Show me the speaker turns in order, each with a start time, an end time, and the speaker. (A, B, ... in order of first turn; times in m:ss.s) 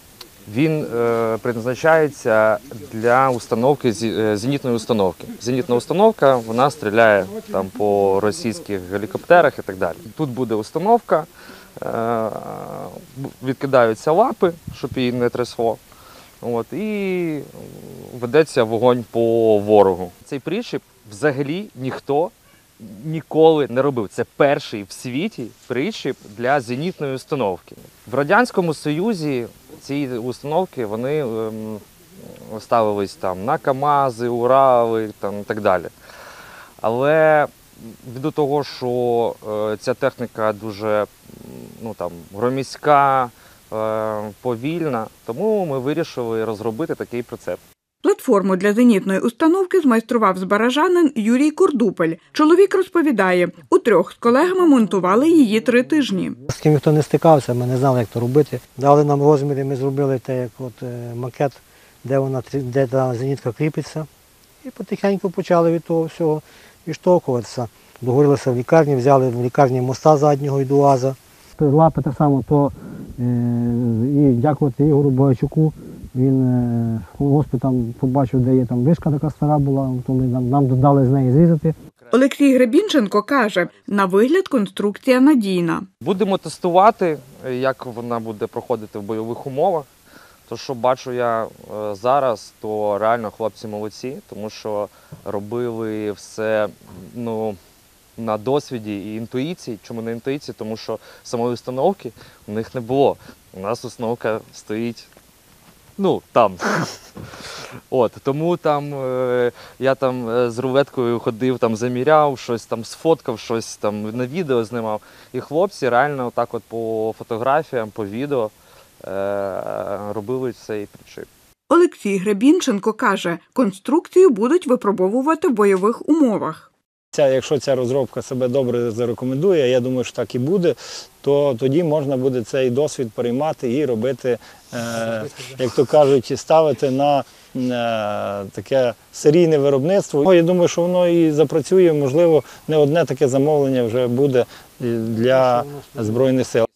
0:00.5-0:15.8 A
0:16.4-0:35.9 A
0:36.8-0:47.6 A
0:48.0-0:56.4 B
0:56.5-1:04.1 C
1:04.6-1:21.7 C
1:22.0-1:23.8 A
1:22.1-1:25.8 B
1:26.0-1:29.9 A
1:30.5-1:37.6 A
1:38.2-1:45.1 A
1:46.0-2:01.3 A
2:01.7-2:06.7 B
2:07.1-2:26.6 D
2:25.3-2:26.1 C